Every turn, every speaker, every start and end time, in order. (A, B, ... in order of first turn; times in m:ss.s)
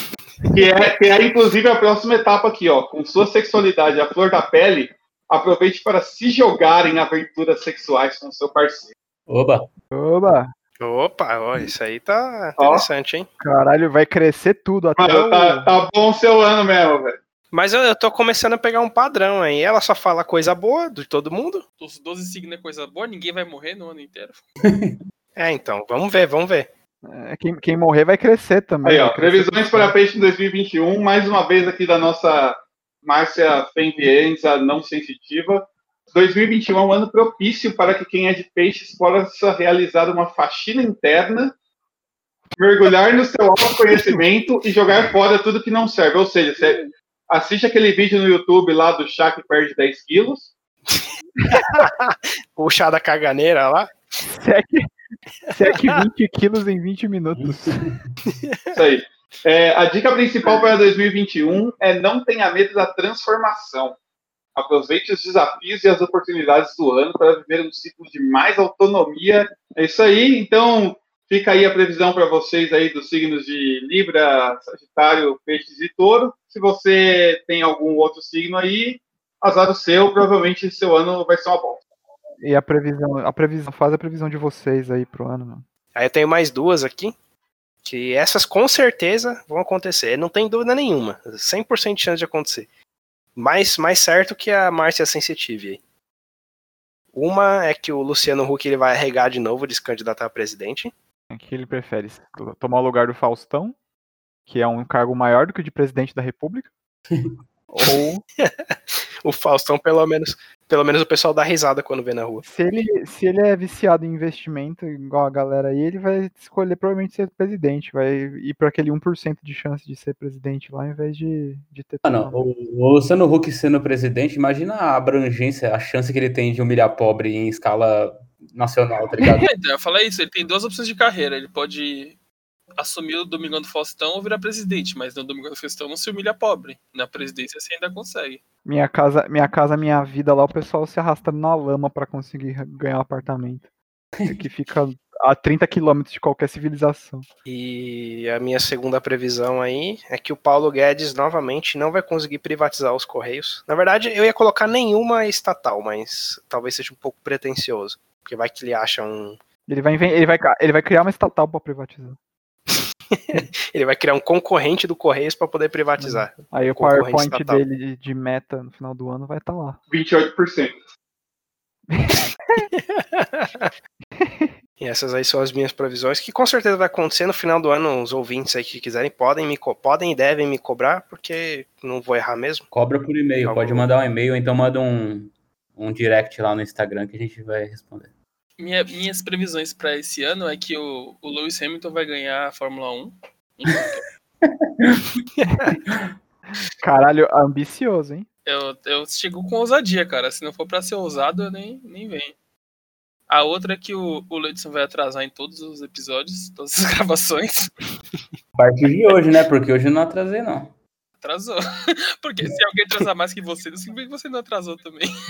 0:00.5-0:08.9 A
0:09.3-0:09.7 B
0:09.9-0:10.5 C
0:10.8-0:13.3 D
0:12.6-0:12.8 A
0:13.4-0:15.7 C
0:15.0-0:17.2 A
0:17.5-0:21.6 D
0:21.8-0:24.4 E
0:24.6-0:25.0 B
0:25.4-0:26.7 D
0:27.0-0:30.0 C
0:28.8-0:41.5 A
0:42.6-0:50.5 A
0:51.5-0:53.9 D
0:54.3-0:54.9 C
0:55.5-0:56.0 D
0:55.5-0:57.8 C
0:57.4-0:58.0 B
0:58.3-0:58.9 D
0:58.7-1:04.0 A
1:04.5-1:21.8 A
1:22.4-1:25.6 C
1:25.9-1:27.1 D
1:27.8-1:32.7 D
1:33.4-1:35.8 D
1:37.1-1:40.9 D
1:41.3-1:43.7 C
1:44.4-1:46.7 C
1:47.7-1:48.2 C
1:48.4-1:52.4 D
1:52.4-2:02.4 C
2:02.0-2:09.5 B
2:09.4-2:12.2 E
2:12.8-2:18.4 E
2:18.6-2:23.7 C
2:24.2-2:27.2 C
2:27.4-2:39.4 D
2:39.7-2:42.2 C
2:43.1-2:47.6 D
2:46.0-2:49.8 C
2:49.9-2:50.8 A
2:51.9-2:52.7 C
2:52.8-2:53.7 D
2:54.2-2:54.5 C
2:54.8-3:02.7 D
3:02.7-3:08.1 B
3:03.4-3:03.9 D
3:08.6-3:14.1 E
3:14.4-3:15.0 B
3:15.4-3:15.7 D
3:16.8-3:18.3 C
3:18.4-3:22.3 E
3:23.3-3:27.7 E
3:28.5-3:30.7 B
3:31.2-3:35.1 E